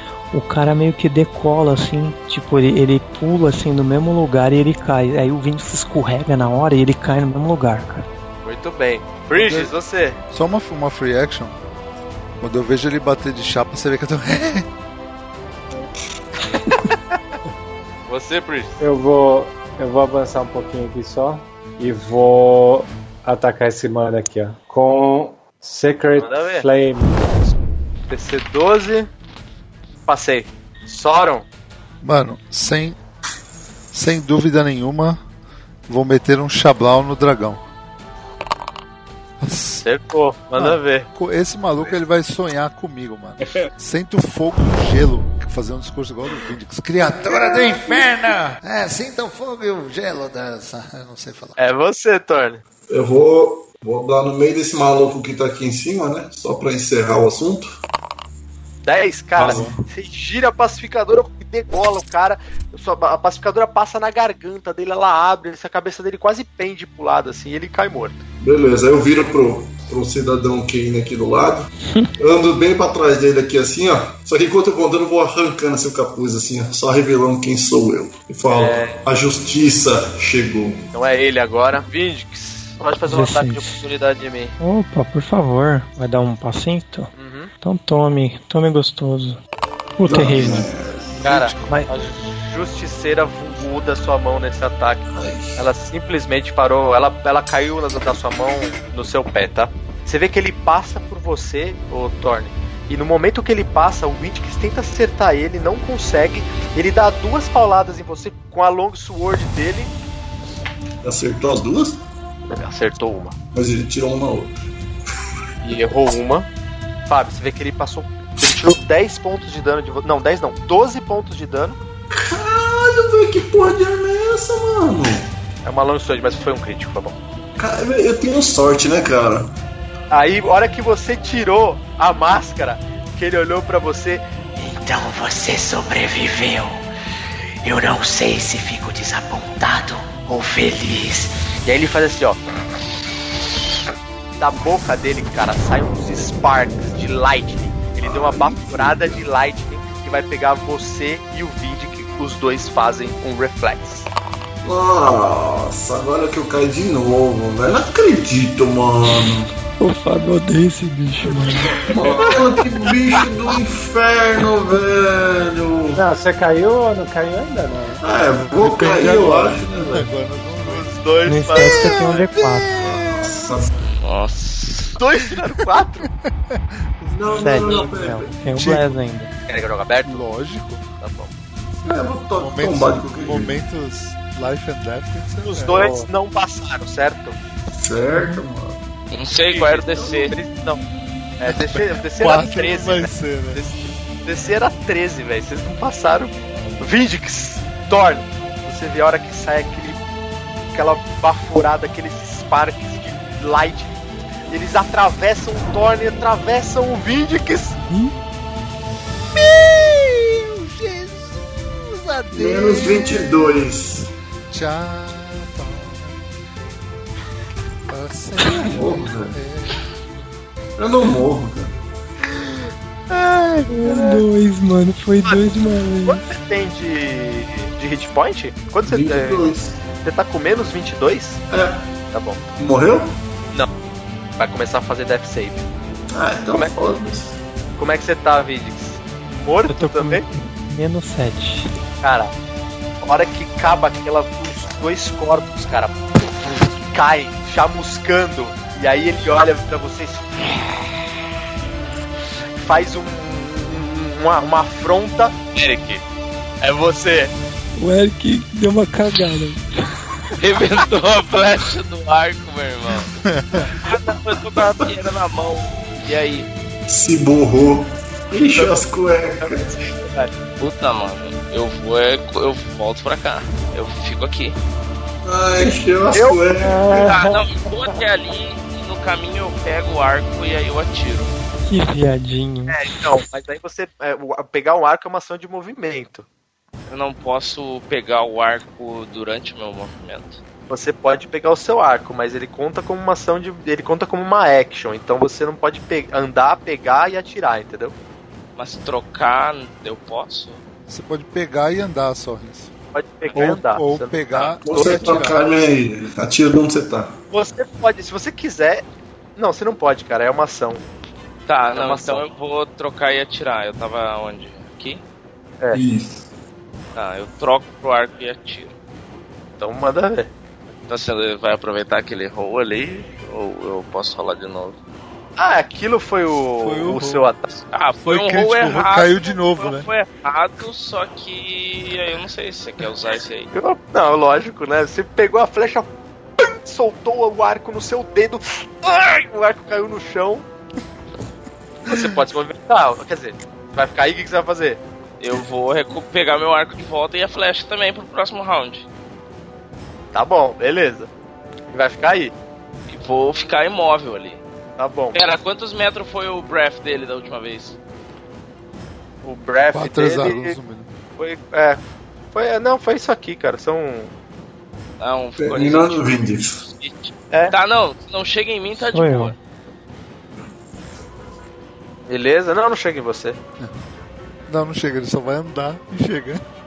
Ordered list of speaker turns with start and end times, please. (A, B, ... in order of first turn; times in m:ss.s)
0:00.3-0:08.1 A
0:08.4-0:10.2 B
0:09.3-0:09.7 C
0:10.3-0:11.6 C
0:12.4-0:14.7 C
0:16.7-0:16.9 B
0:18.1-0:18.8 B
0:18.8-0:27.6 D
0:26.2-0:26.7 B
0:28.1-0:29.1 B
0:30.1-0:31.5 B
0:32.0-0:33.0 C
0:33.9-0:35.2 C
0:35.9-0:37.6 C
0:39.4-0:39.9 C
0:39.8-0:41.1 B
0:40.6-0:51.6 C
0:51.6-0:52.6 B
0:52.9-0:57.8 E
0:58.8-1:08.2 B
0:59.4-0:59.8 E
0:59.4-0:59.7 C
1:08.4-1:20.8 E
1:11.8-1:12.1 A
1:18.5-1:19.0 B
1:20.9-1:24.6 B
1:23.1-1:23.8 A
1:24.6-1:27.1 A
1:27.2-1:27.5 B
1:27.6-1:29.4 A
1:30.0-1:30.7 A
1:30.1-1:31.2 E
1:31.2-1:31.8 C
1:31.2-1:35.0 B
1:31.6-1:31.9 A
1:35.1-1:35.6 E
1:35.6-1:49.9 B
1:51.0-1:52.0 E
1:52.5-1:53.4 B
1:53.5-1:54.6 E
1:55.6-1:56.5 B
1:57.1-2:01.8 B
2:02.1-2:05.3 E
2:05.6-2:07.2 B
2:07.6-2:09.6 E
2:10.1-2:16.8 B
2:17.6-2:22.4 B
2:24.4-2:34.1 B
2:28.0-2:29.2 E
2:34.6-2:39.5 E
2:39.8-2:41.9 A
2:41.8-2:46.0 E
2:46.0-2:48.0 D
2:48.0-2:50.1 E
2:48.6-2:50.9 C
2:50.6-2:52.3 B
2:51.3-2:52.7 A
2:51.6-2:53.7 C
2:52.8-2:53.8 E
2:53.9-2:55.0 F
2:55.0-2:56.1 B
2:56.5-2:59.0 C
2:57.1-2:58.4 E
2:57.3-2:59.3 A
2:59.5-3:00.3 B
3:00.0-3:00.8 C
3:01.0-3:01.3 B
3:01.8-3:03.6 E
3:02.4-3:05.8 C
3:05.4-3:07.4 B
3:05.7-3:06.1 D
3:07.7-3:08.8 E
3:09.1-3:10.4 F
3:09.5-3:10.8 B
3:11.4-3:20.0 B
3:11.5-3:13.6 C
3:20.7-3:24.0 B
3:24.5-3:27.8 B
3:27.8-3:28.1 A
3:29.4-3:33.5 C
3:32.3-3:34.1 E
3:34.5-3:36.2 C
3:37.9-3:39.8 C
3:38.7-3:39.4 E
3:40.8-3:41.7 E
3:43.1-3:44.2 B
3:43.7-3:46.3 A
3:45.2-3:49.5 B
3:48.9-3:49.8 E
3:50.0-3:51.4 B
3:51.5-3:51.9 E
3:52.1-3:52.4 B
3:52.6-3:53.2 E
3:54.4-3:55.6 B
3:56.1-3:57.4 E
3:57.8-4:00.2 B
3:59.7-4:01.7 A
4:02.0-4:02.3 B
4:03.0-4:10.9 B
4:12.6-4:16.0 B
4:16.6-4:17.3 B
4:17.8-4:20.3 A
4:20.3-4:23.1 F
4:23.2-4:23.7 C
4:23.8-4:26.5 F
4:26.9-4:29.7 E
4:28.5-4:28.9 B
4:29.4-4:30.3 B
4:30.6-4:34.6 F
4:35.2-4:37.1 E
4:36.1-4:36.4 B
4:36.6-4:37.4 D
4:37.0-4:41.3 F
4:41.7-4:43.1 A
4:42.7-4:46.3 B
4:46.9-4:50.4 F
4:50.7-4:58.0 B
4:58.6-5:00.6 F
5:00.9-5:02.7 C
5:02.9-5:05.1 B
5:03.4-5:05.4 C
5:04.6-5:07.2 E
5:07.3-5:08.8 B
5:09.4-5:10.8 B
5:11.5-5:15.0 F
5:11.8-5:12.3 B
5:15.7-5:16.2 E
5:17.0-5:18.8 F
5:19.6-5:20.3 B
5:20.9-5:24.8 F
5:25.4-5:27.6 B
5:26.6-5:27.3 C
5:27.7-5:33.5 F
5:28.0-5:29.9 C
5:33.5-5:35.9 B
5:36.4-5:40.5 B
5:41.9-5:44.8 B
5:45.2-5:48.9 F
5:50.1-5:51.1 B
5:51.7-5:52.4 B
5:52.9-5:54.4 F
5:54.8-5:55.2 B
5:55.1-5:57.8 F
5:59.2-6:00.6 B
5:59.7-6:00.9 C
6:01.2-6:01.8 B
6:02.3-6:04.1 B
6:05.0-6:09.4 F
6:05.4-6:06.6 E
6:08.9-6:09.4 A
6:12.1-6:13.4 B
6:14.5-6:16.4 C